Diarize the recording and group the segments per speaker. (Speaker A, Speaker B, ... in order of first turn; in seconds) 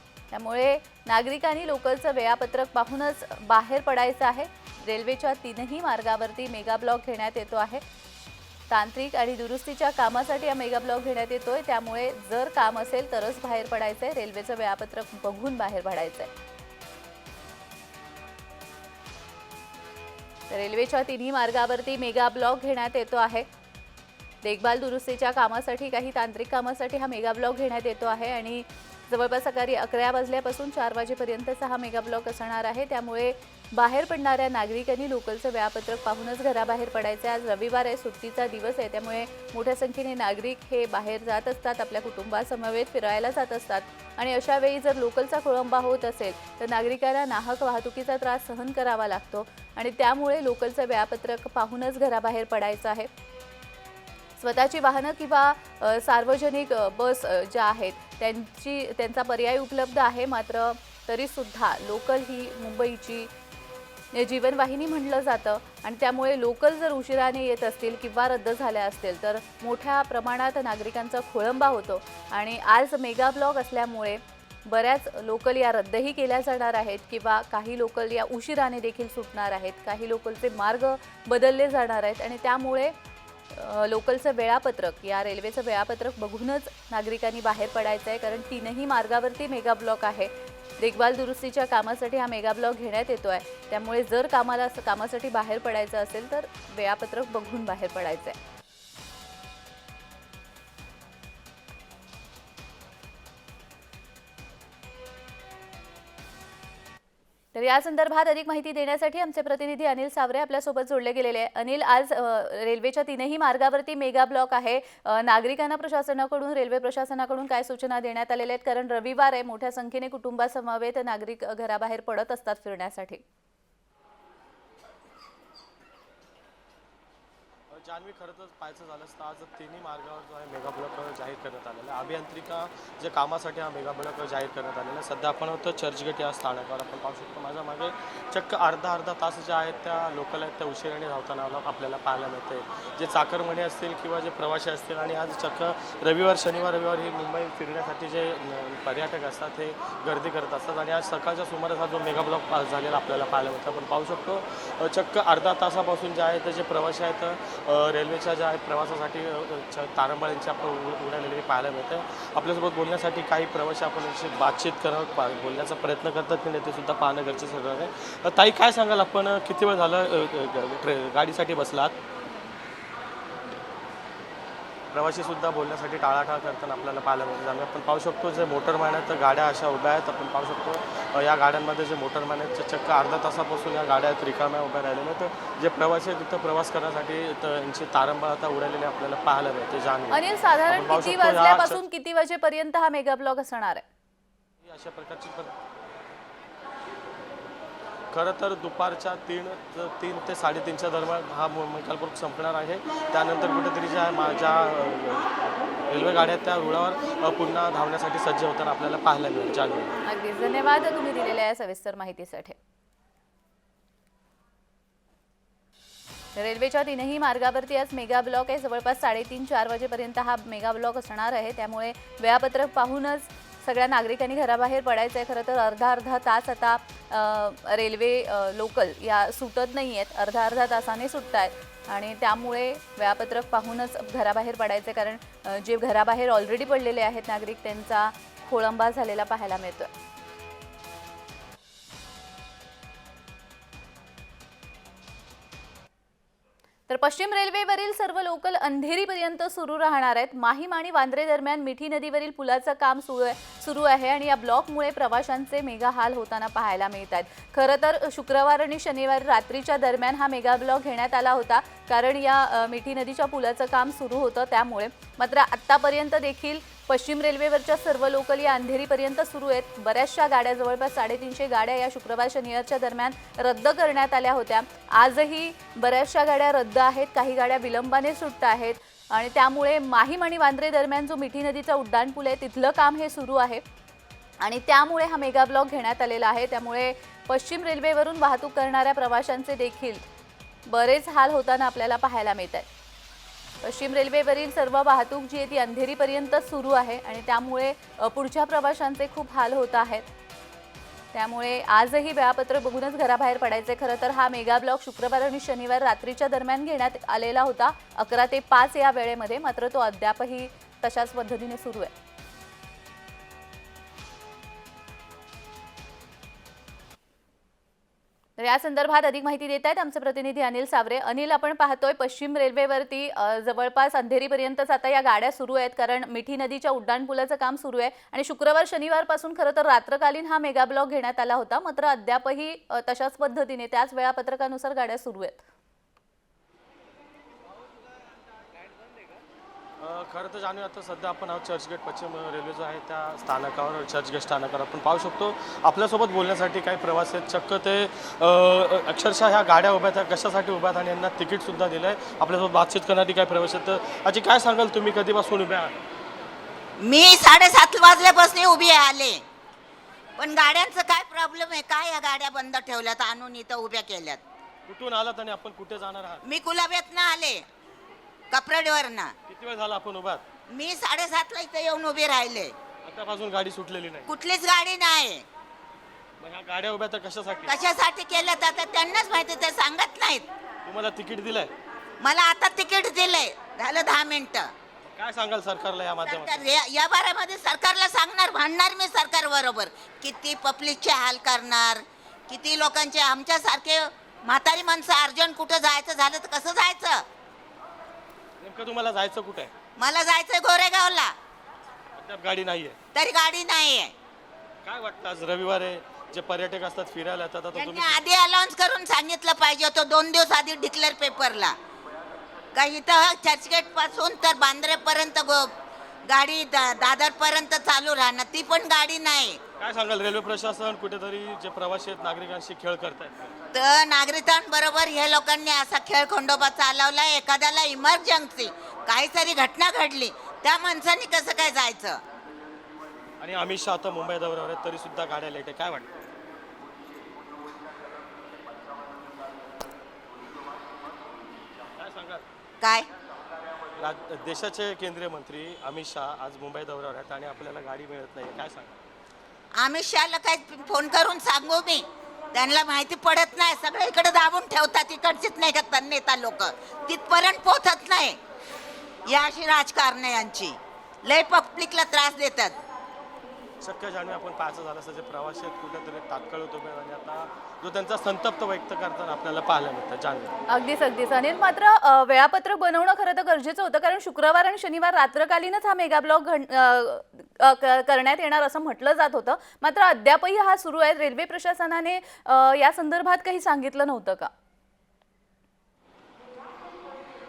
Speaker A: 0.3-7.8, 8.7-16.3, 20.5-23.5, 24.4-53.1, 54.4-63.3, 64.1-82.9, 83.5-98.4, 107.5-123.2, 190.1-193.8, 210.1-212.6, 216.3-239.9, 246.9-283.6, 284.4-290.1, 290.7-292.7, 293.6-300.1, 301.1-311.9, 318.4-335.4, 470.5-484.3
Speaker B: 127.7-172.0, 174.9-191.8, 194.6-195.5, 198.1-205.3, 205.9-210.0, 339.8-355.8, 364.7-366.2, 369.3-370.2, 372.9-374.1, 376.2-377.6, 380.6-381.5, 384.9-386.5, 398.4-399.5, 402.0-402.8, 404.6-408.0, 419.6-423.3, 433.2-435.9, 441.8-442.2, 443.8-448.8, 463.6-470.3
Speaker C: 356.8-359.2, 360.2-364.2, 366.2-367.5, 368.3-369.1, 370.5-372.6, 374.1-375.2, 377.5-380.2, 382.0-384.5, 386.0-397.0, 399.8-401.1, 402.9-403.9, 407.5-411.6, 412.6-415.5, 416.1-419.4, 423.5-432.0, 442.6-442.9, 449.6-458.2, 459.1-462.6